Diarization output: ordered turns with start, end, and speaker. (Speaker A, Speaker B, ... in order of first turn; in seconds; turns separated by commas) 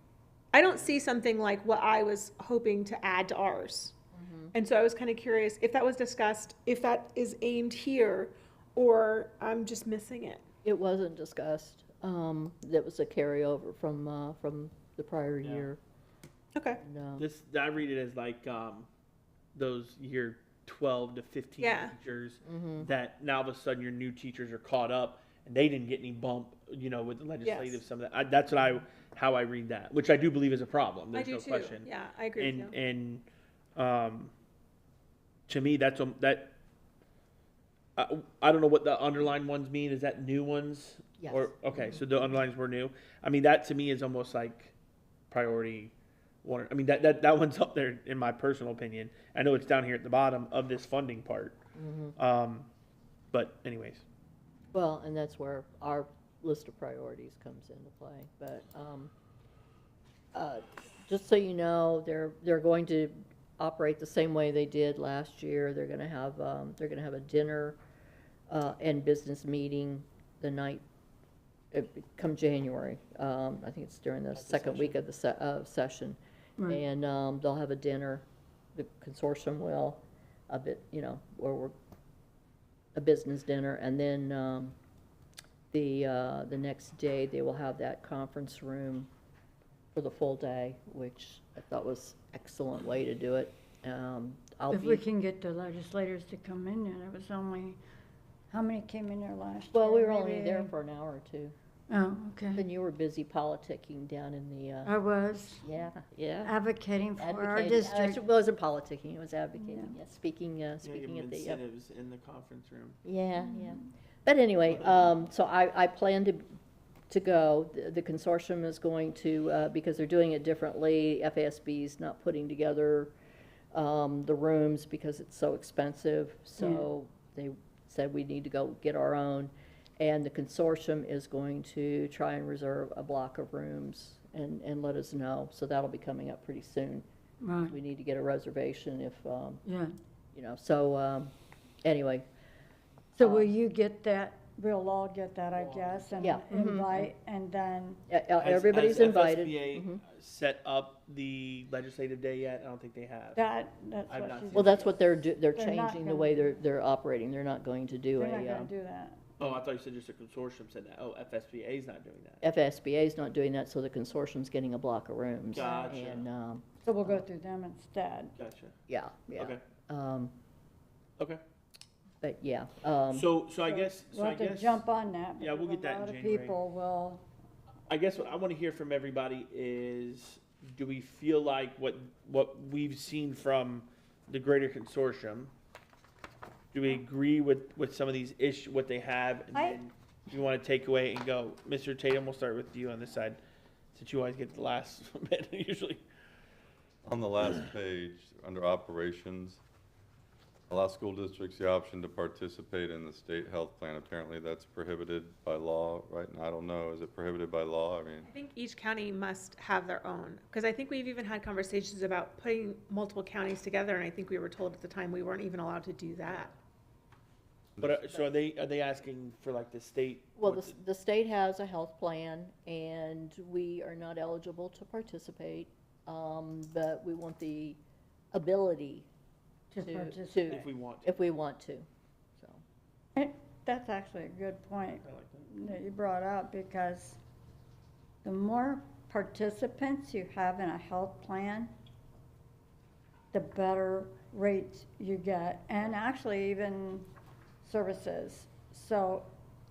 Speaker A: 0.5-3.9, Speaker B: 4.1-4.5, Speaker A: 4.5-10.4, Speaker B: 10.6-15.8, Speaker C: 15.4-15.7, Speaker A: 16.6-16.8, Speaker B: 16.8-17.3, Speaker C: 17.2-18.9, Speaker C: 19.6-34.3, Speaker A: 21.6-21.9, Speaker B: 22.4-22.9, Speaker A: 27.4-27.8, Speaker A: 31.1-32.8, Speaker C: 35.5-36.5, Speaker C: 38.0-44.7, Speaker B: 41.2-42.0, Speaker C: 45.3-45.9, Speaker C: 46.4-51.6, Speaker B: 51.8-52.1, Speaker C: 52.2-52.7, Speaker C: 53.3-54.0, Speaker B: 54.7-59.1, Speaker B: 60.3-67.8, Speaker B: 68.5-70.8, Speaker B: 71.7-81.8, Speaker C: 74.3-75.0, Speaker B: 83.0-84.8, Speaker B: 85.7-89.1, Speaker B: 89.9-95.0, Speaker D: 94.7-97.8, Speaker D: 98.5-100.8, Speaker B: 99.7-101.5, Speaker D: 101.9-102.7, Speaker B: 102.5-104.9, Speaker D: 104.8-105.7, Speaker B: 105.6-106.6, Speaker D: 106.5-108.2, Speaker B: 107.2-111.6, Speaker D: 109.6-110.0, Speaker C: 110.8-113.0, Speaker B: 113.0-116.5, Speaker D: 113.4-113.8, Speaker C: 114.7-115.1, Speaker B: 117.1-123.2, Speaker B: 123.7-137.1, Speaker D: 126.6-126.9, Speaker D: 137.4-137.8, Speaker B: 137.7-139.6, Speaker D: 139.7-139.9, Speaker B: 140.3-141.3, Speaker B: 141.8-142.3, Speaker B: 143.2-143.5, Speaker D: 143.2-148.1, Speaker C: 145.5-146.4, Speaker B: 146.2-147.1, Speaker B: 148.1-150.0, Speaker C: 148.4-153.4, Speaker D: 153.4-156.5, Speaker C: 154.1-154.9, Speaker B: 154.5-158.7, Speaker D: 158.2-159.5, Speaker C: 159.4-162.4, Speaker B: 162.4-167.3, Speaker C: 165.5-166.3, Speaker D: 165.6-166.0, Speaker D: 166.8-168.3, Speaker C: 168.4-168.8, Speaker B: 168.9-170.4, Speaker C: 169.3-169.6, Speaker B: 172.2-173.3, Speaker C: 173.1-174.8, Speaker D: 173.6-177.2, Speaker C: 175.4-176.6, Speaker C: 177.9-185.5, Speaker C: 186.7-193.4, Speaker D: 189.5-189.8, Speaker C: 193.9-196.0, Speaker E: 197.1-199.6, Speaker E: 200.7-208.3, Speaker A: 208.2-216.5, Speaker C: 217.8-220.7, Speaker B: 220.4-227.8, Speaker B: 228.3-229.1, Speaker D: 229.7-230.6, Speaker B: 229.8-232.6, Speaker C: 230.5-231.1, Speaker D: 233.2-237.2, Speaker C: 235.0-235.7, Speaker D: 238.2-241.7, Speaker D: 243.3-247.1, Speaker D: 247.6-249.3